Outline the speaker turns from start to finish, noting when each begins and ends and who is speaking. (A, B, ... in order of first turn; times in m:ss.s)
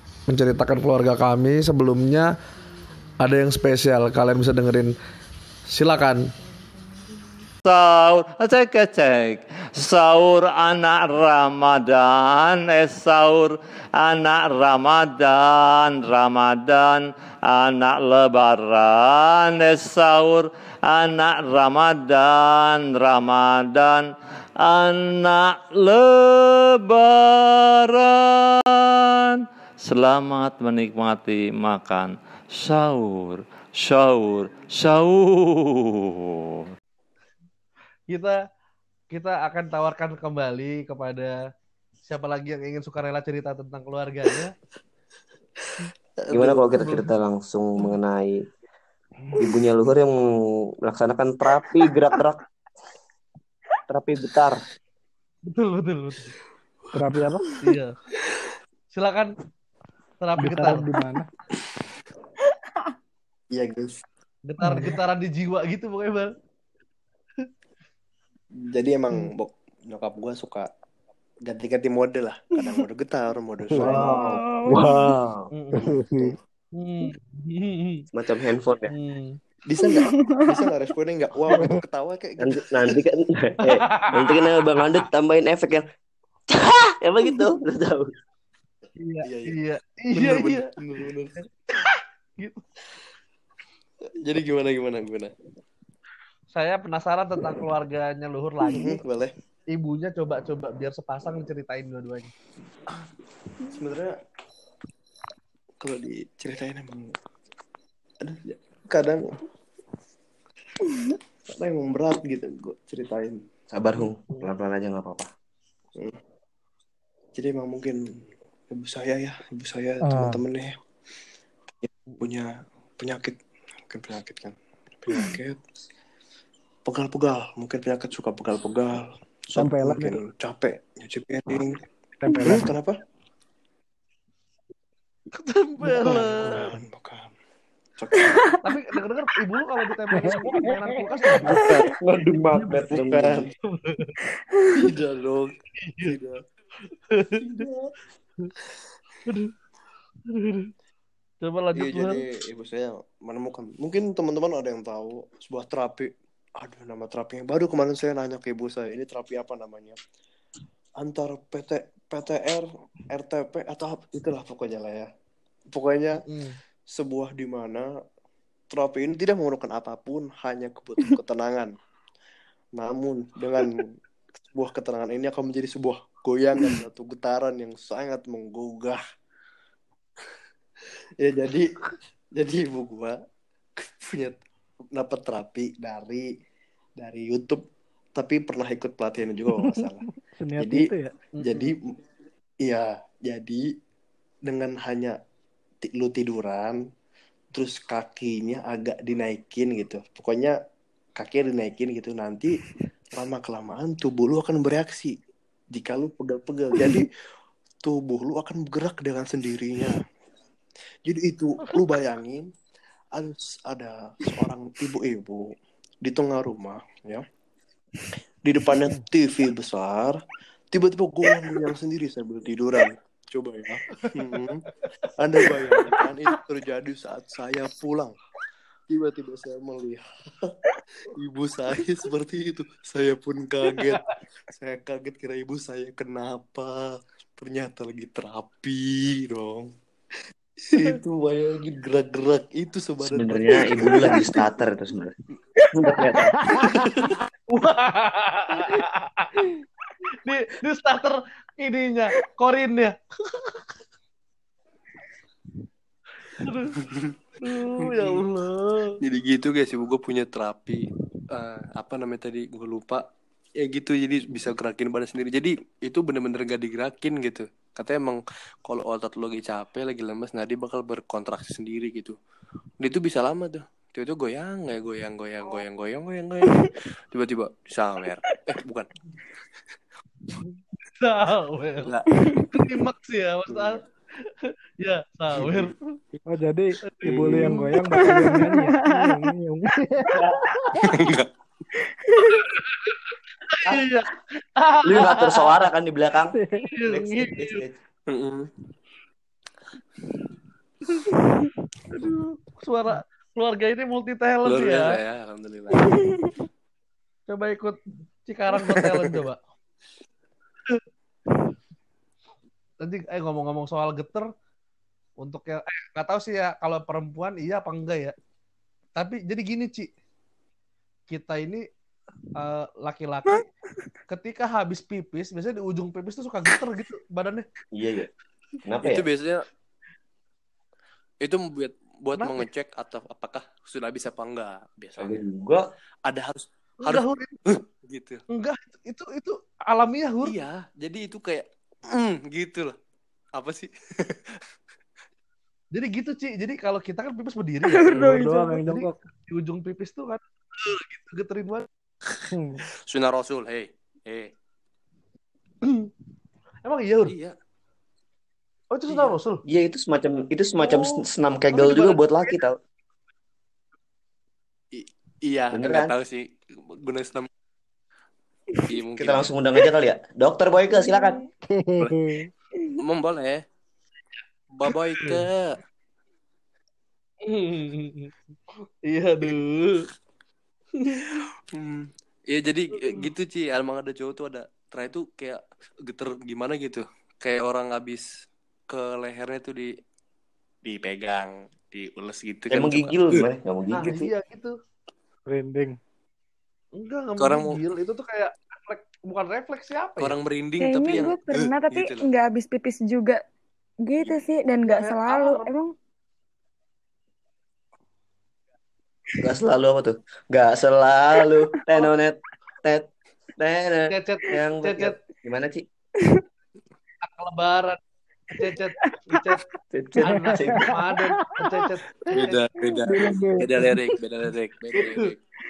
0:00.3-0:02.3 A
0:03.2-0:04.9 A
0:05.7-0:06.3 A
0:07.6-0:36.7 B
0:38.1-0:38.4 A
0:39.1-0:41.4 A
0:42.0-0:44.5 A
0:46.2-0:47.0 C
0:46.3-0:48.5 D
0:49.4-0:50.2 D
0:50.8-0:52.4 D
0:53.9-0:54.6 D
0:55.5-0:56.3 A
0:56.9-0:57.5 E
0:57.6-0:57.9 A
0:58.9-0:59.3 A
1:00.2-1:00.9 A
1:00.4-1:01.3 E
1:03.5-1:04.0 C
1:04.5-1:06.3 A
1:04.6-1:05.0 E
1:08.6-1:10.7 C
1:11.4-1:14.4 C
1:13.8-1:14.0 E
1:13.8-1:14.1 A
1:13.9-1:14.9 F
1:14.7-1:15.5 D
1:14.9-1:15.1 E
1:15.5-1:15.9 A
1:15.8-1:16.3 E
1:16.8-1:18.0 A
1:18.1-1:18.9 D
1:18.9-1:19.4 A
1:19.7-1:23.0 C
1:19.8-1:20.6 F
1:21.5-1:21.8 E
1:22.4-1:25.9 D
1:23.6-1:24.5 A
1:26.5-1:28.1 D
1:29.0-1:30.7 A
1:29.2-1:29.6 C
1:30.1-1:31.4 C
1:31.4-1:32.6 A
1:34.2-1:35.3 C
1:36.5-1:39.0 A
1:38.7-1:39.3 C
1:39.7-1:42.3 A
1:43.6-1:44.2 C
1:45.8-1:47.2 C
1:48.2-1:49.4 C
1:51.5-1:53.4 C
1:53.7-1:55.3 D
1:57.3-2:00.7 C
2:00.0-2:00.4 E
2:02.2-2:05.6 C
2:06.8-2:11.8 C
2:09.5-2:10.2 E
2:12.2-2:12.7 E
2:12.3-2:13.0 C
2:15.3-2:16.7 A
2:15.9-2:16.7 E
2:16.0-2:17.3 C
2:18.0-2:18.4 C
2:18.2-2:18.6 F
2:18.6-2:21.7 A
2:20.1-2:21.2 E
2:21.5-2:21.9 C
2:22.0-2:23.4 D
2:22.5-2:23.0 A
2:22.9-2:23.5 C
2:23.8-2:24.1 A
2:24.8-2:26.4 C
2:25.8-2:26.2 A
2:27.1-2:27.6 A
2:27.5-2:27.9 C
2:29.2-2:29.5 A
2:30.3-2:30.7 A
2:31.4-2:32.2 A
2:31.7-2:40.0 C
2:41.0-2:45.1 C
2:45.7-2:46.2 C
2:46.2-2:46.6 A
2:46.9-2:47.9 C
2:48.7-2:51.7 C
2:52.8-2:53.8 C
2:54.4-2:59.0 C
3:01.2-3:01.8 C
3:02.3-3:03.2 C
3:03.8-3:04.4 C
3:04.9-3:06.3 C
3:07.0-3:07.6 C
3:08.1-3:10.0 C
3:09.6-3:11.1 E
3:10.6-3:10.9 C
3:11.4-3:11.7 A
3:11.4-3:12.0 C
3:12.6-3:13.7 C
3:14.4-3:15.2 C
3:15.8-3:16.8 C
3:17.5-3:20.5 C
3:21.2-3:22.5 C
3:23.2-3:25.1 C
3:25.7-3:27.1 C
3:27.8-3:30.0 C
3:31.1-3:32.5 C
3:33.2-3:35.4 C
3:36.0-3:37.2 C
3:38.4-3:40.2 C
3:40.7-3:44.6 C
3:45.2-3:48.2 C
3:45.4-3:46.0 A
3:48.9-3:50.6 C
3:51.2-3:56.8 C
3:57.4-3:59.7 C
4:00.7-4:04.3 C
4:03.0-4:05.1 D
4:05.7-4:06.4 D
4:06.4-4:06.6 E
4:06.6-4:07.2 C
4:07.5-4:09.5 A
4:10.2-4:13.6 A
4:16.4-4:16.8 A
4:16.8-4:17.1 C
4:17.4-4:19.0 A
4:17.8-4:18.2 C
4:19.0-4:23.0 C
4:23.6-4:32.2 C
4:32.8-4:38.9 C
4:40.8-4:41.9 A
4:41.8-4:42.5 C
4:42.5-4:43.8 A
4:44.8-4:45.8 A
4:45.4-4:46.2 C
4:46.3-4:50.9 E
4:46.9-4:47.6 A
4:47.0-4:47.6 C
4:47.4-4:49.3 F
4:50.2-4:50.6 D
4:50.8-4:51.3 C
4:53.5-4:55.5 A
4:54.8-4:57.7 D
4:56.3-4:56.7 E
4:56.7-4:57.6 A
4:58.1-4:58.5 C
5:01.9-5:05.0 A
5:04.4-5:06.0 C
5:07.3-5:09.4 A
5:08.5-5:08.8 C
5:12.8-5:14.3 A
5:15.2-5:18.1 A
5:19.0-5:19.9 A
5:21.1-5:21.6 A
5:22.4-5:23.4 A
5:24.1-5:27.4 A
5:27.7-5:28.1 D
5:28.6-5:29.0 D
5:28.8-5:29.4 C
5:31.2-5:35.2 C
5:32.2-5:32.4 A
5:35.0-5:35.6 D
5:36.1-5:38.2 C
5:36.8-5:37.4 A
5:38.3-5:40.3 A
5:40.2-5:42.8 C
5:43.3-5:44.4 C
5:45.7-5:51.7 A
5:47.6-5:48.7 F
5:48.0-5:49.0 E
5:52.3-5:52.6 E
5:52.8-5:54.3 C
5:55.6-5:55.9 A
5:56.6-5:57.1 A
5:57.0-5:57.3 C
5:58.7-5:59.4 A
5:58.9-5:59.2 C
5:59.5-6:02.6 D
6:00.6-6:01.0 A
6:01.5-6:02.3 A
6:04.7-6:07.3 C
6:05.5-6:05.9 D
6:08.7-6:09.3 C
6:09.0-6:11.2 D
6:11.5-6:12.2 E
6:11.8-6:12.2 C
6:12.8-6:13.4 C
6:14.5-6:15.6 C
6:15.0-6:15.2 A
6:17.2-6:18.1 A
6:18.8-6:19.8 A
6:20.8-6:21.2 A
6:21.5-6:28.1 C
6:22.7-6:23.1 A
6:28.7-6:29.7 C
6:30.6-6:33.3 C
6:32.5-6:34.1 D
6:33.7-6:34.6 A
6:35.3-6:35.8 E
6:36.8-6:40.1 A
6:37.2-6:37.6 C
6:40.0-6:42.0 C
6:40.6-6:43.2 F
6:43.8-6:45.7 F
6:44.6-6:45.5 A
6:49.2-6:52.8 D
6:53.4-6:55.6 D
6:53.9-6:55.0 A
6:57.0-6:57.8 A
6:58.3-6:59.4 A
6:58.4-6:59.4 F
6:59.7-7:00.7 D
7:00.0-7:02.5 A
7:00.2-7:00.7 E
7:01.3-7:01.6 E
7:02.1-7:05.2 C
7:02.6-7:03.0 F
7:02.9-7:03.8 E
7:04.7-7:05.1 A